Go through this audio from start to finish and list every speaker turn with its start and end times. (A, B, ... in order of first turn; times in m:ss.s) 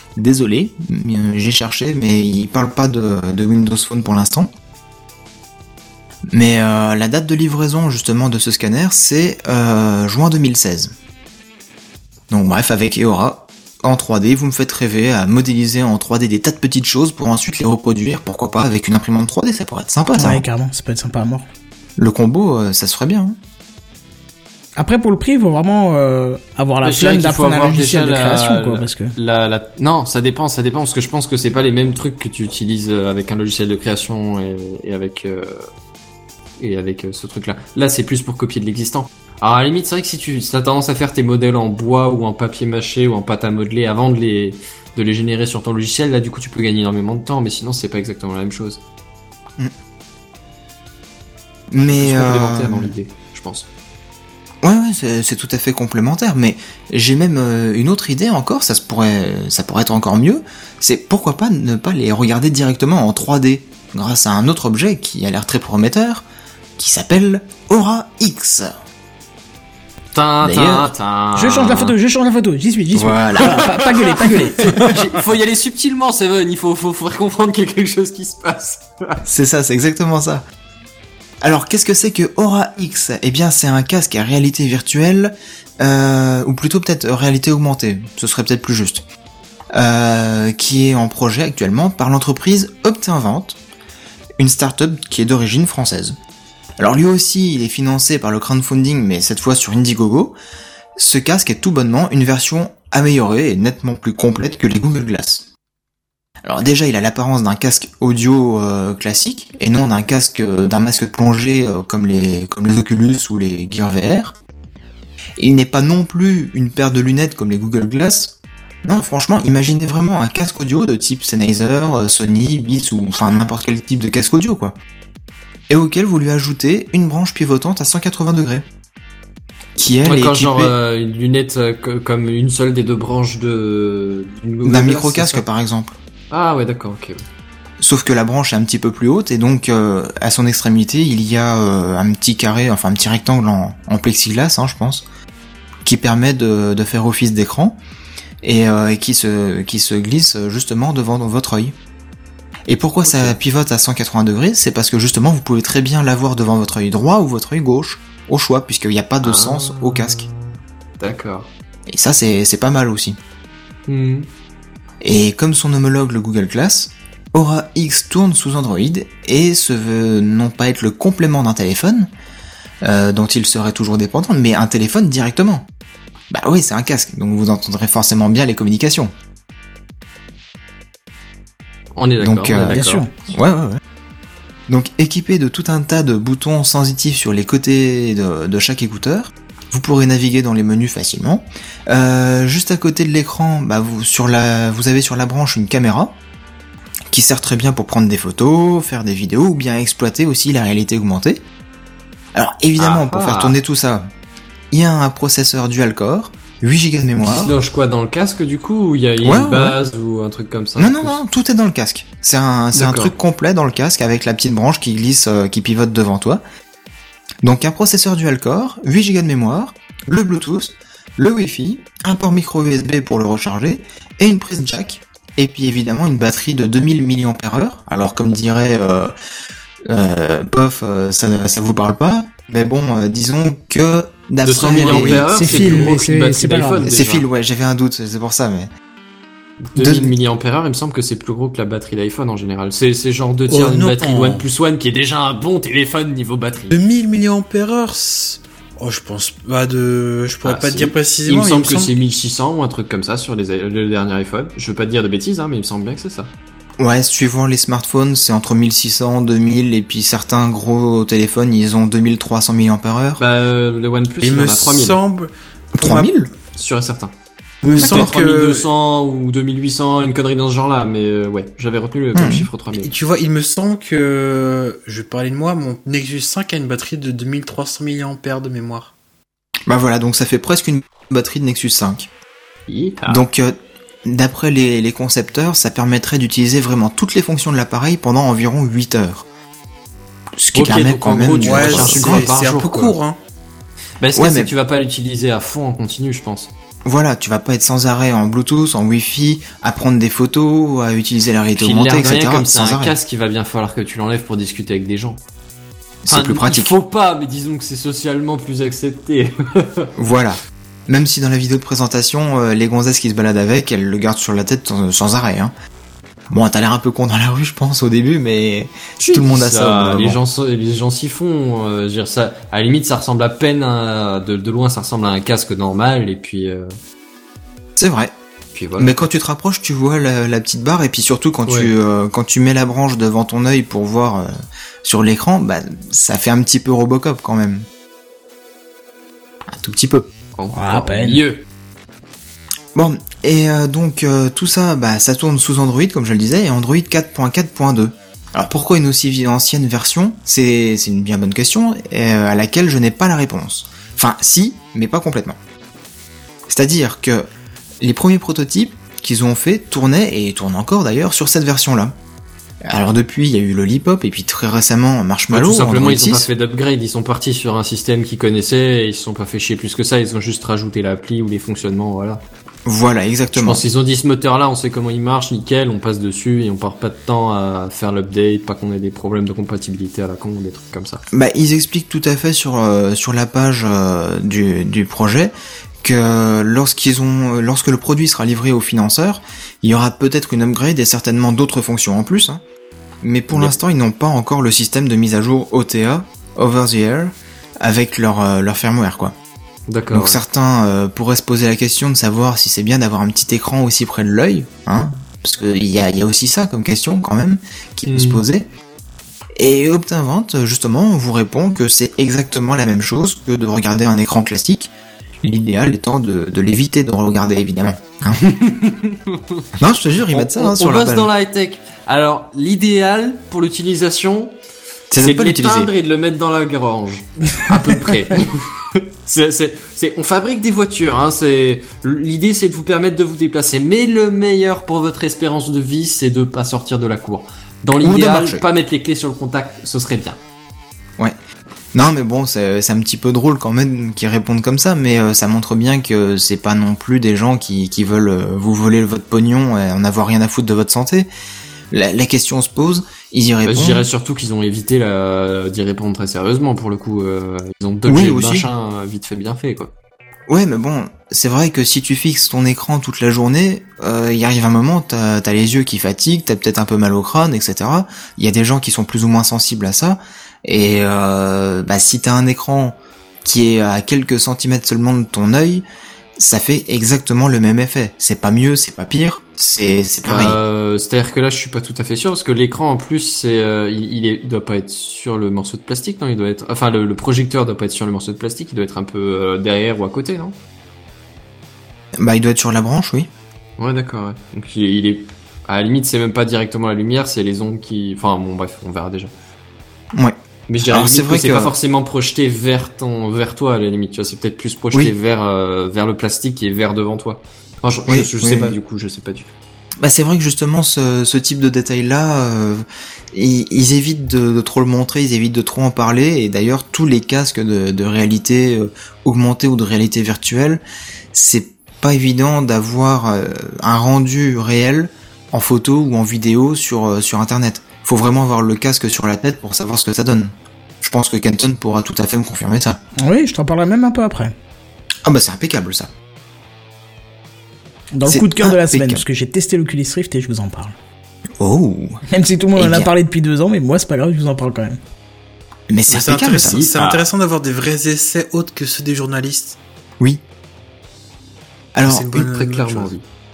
0:00.2-0:04.5 A
0:06.3-0:10.9 A
0:12.3-0:20.4 A
0:20.2-0:21.5 B
0:22.0-0:23.4 A
0:24.8-0:29.1 B
0:26.8-0:35.6 C
0:36.6-0:48.8 C
0:51.7-0:52.9 A
0:51.9-0:53.7 C
0:54.6-1:06.2 A
1:06.8-1:08.8 A
1:10.1-1:12.0 C
1:10.4-1:10.9 A
1:11.4-1:14.8 B
1:12.9-1:13.6 A
1:13.5-1:19.2 C
1:19.2-1:20.4 A
1:21.4-1:29.0 A
1:29.7-1:33.6 A
1:34.4-1:36.2 A
1:36.8-1:40.4 A
1:41.0-1:45.5 A
1:46.4-1:54.4 A
1:55.4-2:04.8 A
2:05.7-2:08.7 A
2:09.8-2:10.8 A
2:10.0-2:15.4 C
2:14.6-2:16.0 A
2:16.3-2:17.2 C
2:17.8-2:25.0 A
2:25.8-2:27.8 A
2:28.4-2:31.7 A
2:32.7-2:40.3 A
2:33.1-2:33.4 C
2:39.2-2:41.5 C
2:41.9-2:43.2 A
2:43.9-2:44.3 C
2:45.0-2:52.1 A
2:52.8-2:55.7 A
2:56.3-2:59.1 A
3:02.0-3:03.0 C
3:02.2-3:03.8 A
3:02.7-3:03.1 B
3:04.7-3:16.2 A
3:17.1-3:21.4 A
3:22.4-3:24.1 A
3:22.8-3:23.6 C
3:24.7-3:27.5 A
3:27.2-3:31.2 C
3:29.2-3:29.8 A
3:30.8-3:36.4 A
3:32.7-3:33.1 C
3:37.4-3:49.1 A
3:49.9-3:55.9 A
3:54.4-3:57.3 C
3:54.7-3:56.9 B
3:56.8-3:58.7 A
3:59.6-4:06.8 C
3:59.8-4:00.1 A
4:03.5-4:04.5 D
4:06.7-4:11.9 D
4:10.4-4:16.3 C
4:16.8-4:23.2 A
4:23.2-4:25.0 C
4:24.2-4:26.1 D
4:25.7-4:26.3 A
4:26.6-4:27.1 C
4:27.6-4:28.7 D
4:27.7-4:32.9 C
4:27.7-4:28.1 A
4:32.2-4:32.5 A
4:32.8-4:38.9 D
4:39.7-4:42.1 A
4:42.7-4:43.2 C
4:43.1-4:49.3 A
4:50.4-4:52.3 A
4:50.5-4:53.0 C
4:51.4-4:53.2 D
4:54.0-4:56.5 C
4:54.2-4:54.5 A
4:56.8-5:03.0 A
5:01.6-5:05.2 C
5:06.0-5:06.7 A
5:06.1-5:09.9 C
5:10.0-5:15.5 A
5:16.3-5:20.2 A
5:19.0-5:26.7 C
5:27.8-5:28.1 A
5:28.5-5:29.0 C
5:28.8-5:37.7 A
5:31.5-5:31.7 C
5:39.5-5:40.1 A
5:40.4-5:41.4 C
5:40.5-5:41.2 B
5:42.8-5:55.4 A
5:56.5-5:57.3 A
5:57.8-6:02.0 A
6:02.6-6:06.3 A
6:05.3-6:12.2 C
6:12.7-6:13.6 A
6:13.4-6:21.0 C
6:21.1-6:32.4 A
6:33.0-6:39.2 A
6:39.7-6:40.2 C
6:39.9-6:48.5 A
6:47.9-6:48.2 C
6:49.4-6:58.2 A
6:58.2-6:59.5 C
6:59.6-7:01.1 A
7:00.1-7:04.4 C
7:04.9-7:05.7 A
7:05.0-7:20.2 C
7:17.8-7:18.4 A
7:21.7-7:31.1 A
7:31.7-7:33.9 A
7:33.4-7:39.7 C
7:37.9-7:38.5 A
7:40.3-7:55.6 A
7:56.2-8:00.4 A
8:00.0-8:10.4 C
8:12.0-8:13.1 A
8:13.6-8:19.1 C
8:20.5-8:29.3 C
8:20.7-8:21.5 A
8:27.9-8:28.6 A
8:29.8-8:40.6 A
8:41.1-8:52.8 A
8:53.0-8:54.3 B
8:55.1-8:55.9 A
8:57.9-9:00.7 B
8:58.1-8:59.0 A
9:01.4-9:02.0 A
9:02.1-9:04.8 B
9:02.6-9:02.9 A
9:05.7-9:06.7 A
9:05.9-9:09.6 D
9:06.8-9:07.0 C
9:11.8-9:12.2 A
9:11.8-9:12.9 D
9:12.2-9:13.0 C